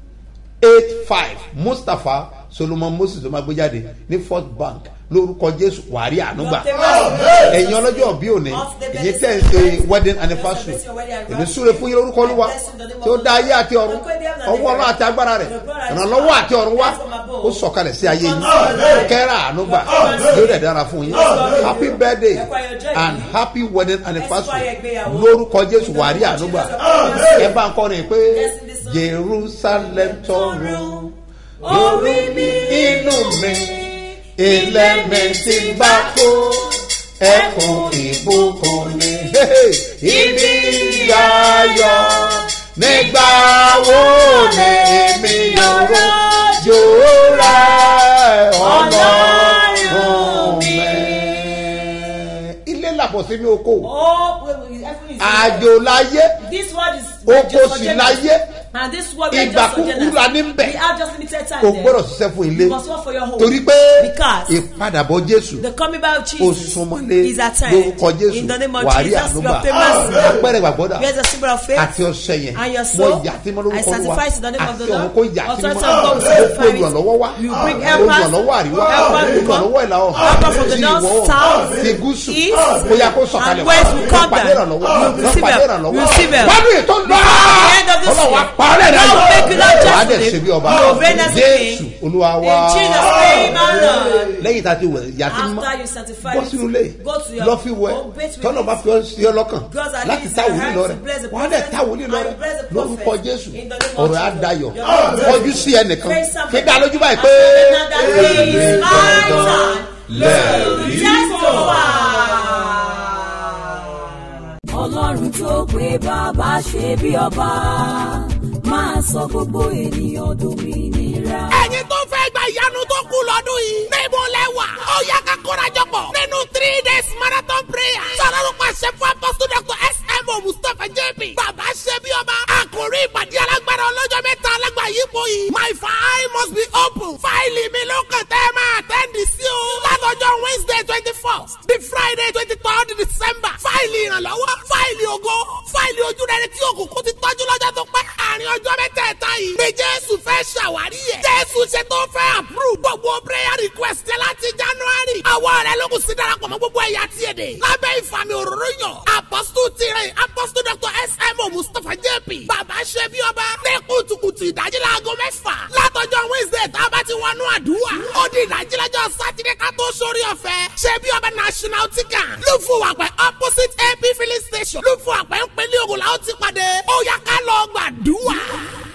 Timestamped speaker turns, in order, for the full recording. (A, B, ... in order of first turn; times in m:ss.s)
0:00.6-0:31.1 A
0:06.3-0:23.3 B
0:24.1-0:27.6 B
0:28.3-0:39.4 B
0:31.6-0:53.9 A
0:40.0-0:48.0 B
0:48.5-0:51.9 B
0:53.8-0:55.7 B
0:55.2-0:56.4 A
0:56.4-1:02.0 B
0:57.2-0:58.4 A
0:59.3-1:00.8 A
1:01.6-1:02.8 A
1:02.5-1:04.6 B
1:03.4-1:05.7 A
1:05.6-1:10.4 B
1:06.4-1:11.2 A
1:10.9-1:12.0 B
1:11.7-1:33.6 A
1:12.5-1:31.8 B
1:32.4-1:34.4 B
1:34.3-1:51.5 A
1:35.2-1:38.9 B
1:39.6-1:53.4 B
1:54.7-2:01.7 C
2:01.5-2:58.6 D